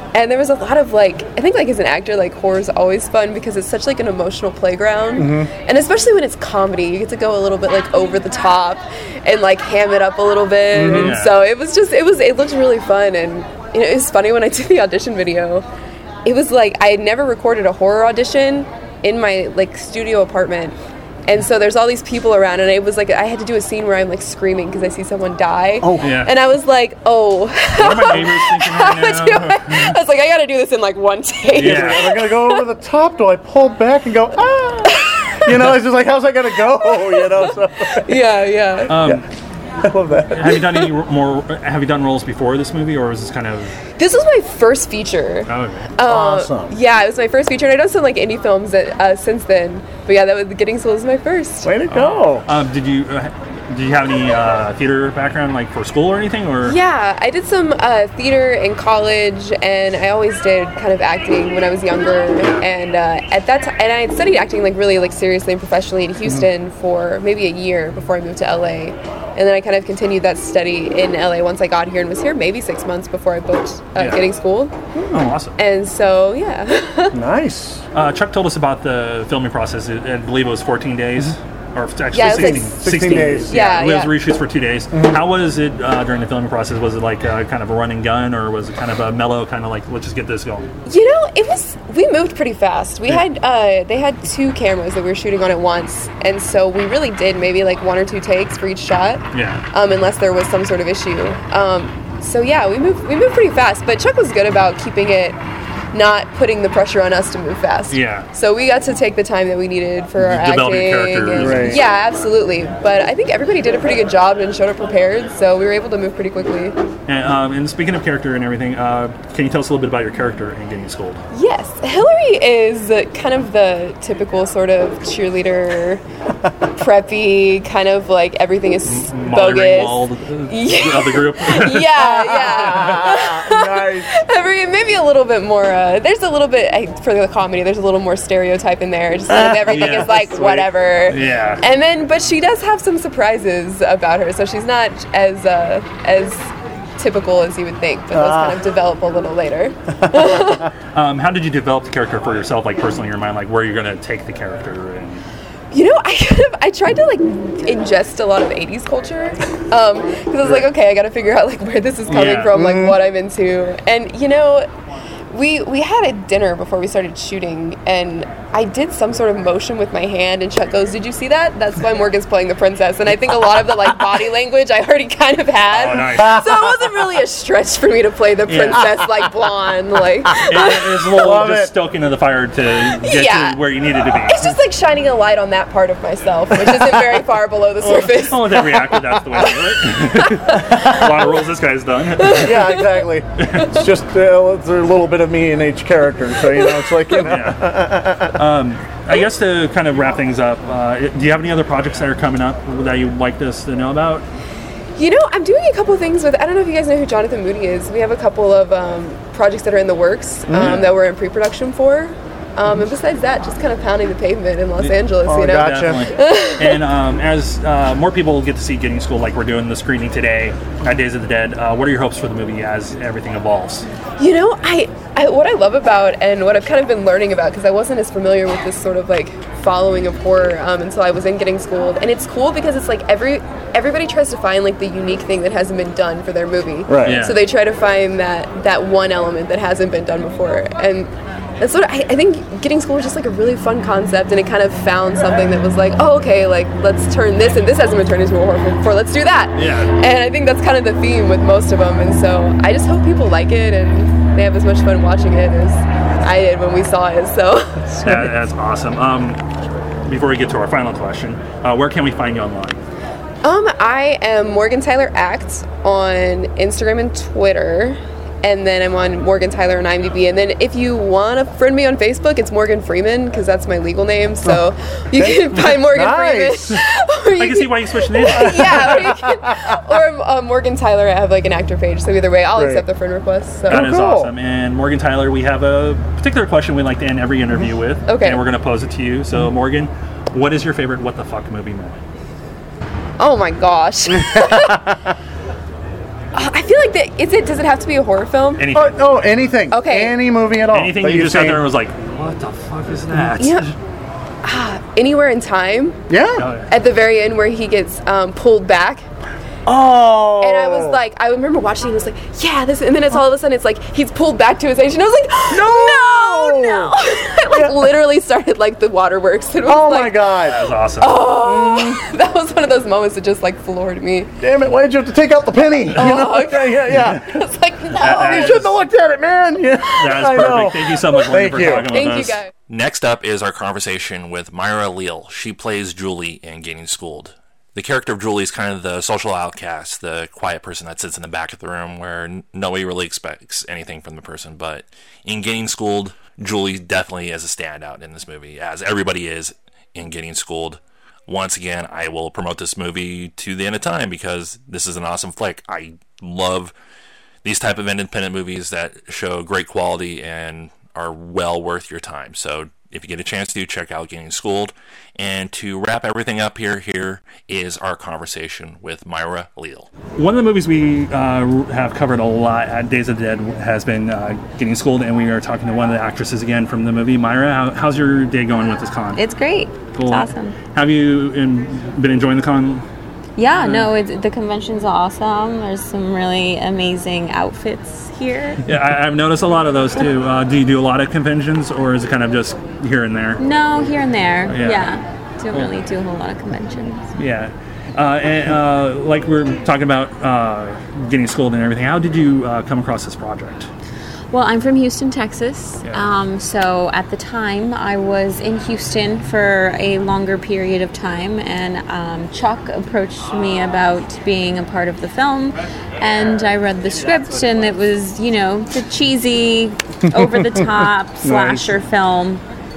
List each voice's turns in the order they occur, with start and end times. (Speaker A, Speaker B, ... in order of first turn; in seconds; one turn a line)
Speaker A: 0.1-15.7
Speaker B: 5.2-5.5
Speaker B: 10.7-11.2
Speaker C: 10.9-11.4
Speaker A: 16.2-32.6
Speaker B: 25.8-26.2
Speaker C: 26.0-26.4
Speaker C: 27.8-30.0
Speaker C: 31.5-32.1
Speaker B: 31.6-38.2
Speaker A: 34.9-35.7
Speaker A: 36.8-39.1
Speaker C: 38.9-39.2
Speaker B: 38.9-39.2
Speaker B: 39.8-40.6
Speaker C: 40.3-43.8
Speaker A: 44.0-51.7
Speaker C: 45.5-45.9
Speaker B: 46.0-46.8
Speaker B: 51.6-52.5
Speaker C: 51.9-56.8
Speaker A: 56.6-74.7
Speaker C: 62.4-62.6
Speaker C: 74.0-74.2
Speaker B: 74.9-75.3
Speaker C: 75.1-75.6
Speaker A: 75.6-77.1
Speaker B: 77.1-77.8
Speaker C: 77.9-90.7
Speaker A: 82.1-84.3
Speaker B: 82.2-83.6
Speaker A: 90.8-105.4
Speaker C: 99.3-99.6
Speaker A: 105.9-116.7
Speaker C: 107.9-108.3
Speaker C: 110.2-111.8
Speaker B: 111.4-111.8
Speaker C: 117.1-121.2
Speaker A: 121.3-126.0
Speaker A: 126.8-150.7
Speaker C: 128.8-131.9
Speaker B: 132.0-134.1
Speaker B: 139.3-140.6
Speaker C: 139.7-141.6
Speaker B: 148.1-148.6
Speaker C: 150.9-155.2
Speaker A: 155.7-164.7
Speaker C: 162.1-162.6
Speaker B: 162.6-162.9
Speaker A: 165.3-180.9
Speaker C: 175.7-176.4
Speaker C: 178.4-178.9
Speaker C: 180.4-184.6
Speaker B: 181.1-181.7
Speaker A: 182.9-189.5
Speaker C: 187.8-192.6
Speaker A: 192.2-193.1
Speaker B: 192.2-198.3
Speaker C: 193.4-193.7
Speaker A: 196.5-197.2
Speaker C: 197.2-204.2
Speaker A: 205.0-216.8
Speaker C: 210.6-210.8
Speaker B: 215.2-216.1
Speaker C: 215.6-223.9
Speaker A: 224.2-258.2
Speaker B: 236.9-237.2
Speaker C: 237.0-237.4
Speaker C: 249.5-249.9
Speaker C: 258.0-259.4
Speaker C: 260.1-262.8
Speaker A: 263.4-283.9
Speaker B: 275.2-276.7
Speaker C: 277.4-279.1
Speaker B: 278.3-279.6
Speaker B: 282.5-282.8
Speaker B: 283.7-284.3
Speaker C: 283.7-292.0
Speaker A: 288.1-288.4
Speaker A: 293.2-294.9
Speaker A: 296.3-298.6
Speaker C: 298.6-299.0
Speaker B: 298.7-301.7
Speaker A: 299.7-300.1
Speaker C: 300.7-303.8
Speaker A: 303.4-303.7
Speaker A: 304.4-306.0
Speaker B: 306.1-306.4
Speaker C: 306.4-306.7
Speaker A: 306.7-309.0
Speaker B: 309.6-311.0
Speaker A: 310.4-324.3
Speaker B: 315.5-316.9
Speaker B: 317.5-317.9
Speaker B: 319.6-320.6
Speaker C: 320.4-321.3
Speaker B: 321.3-322.0
Speaker B: 324.4-327.3
Speaker A: 325.9-328.7
Speaker C: 328.0-328.8
Speaker B: 328.1-331.9
Speaker C: 329.9-332.4
Speaker A: 330.6-332.5
Speaker D: 332.7-356.7
Speaker D: 357.4-369.9
Speaker C: 370.1-379.2
Speaker E: 379.1-380.6
Speaker C: 379.9-382.8
Speaker E: 383.4-388.6
Speaker C: 383.6-383.9
Speaker C: 388.6-393.4
Speaker E: 393.4-397.1
Speaker C: 394.5-395.0
Speaker C: 397.1-403.7
Speaker E: 404.3-422.4
Speaker C: 405.8-406.1
Speaker B: 420.1-420.6
Speaker B: 421.2-421.8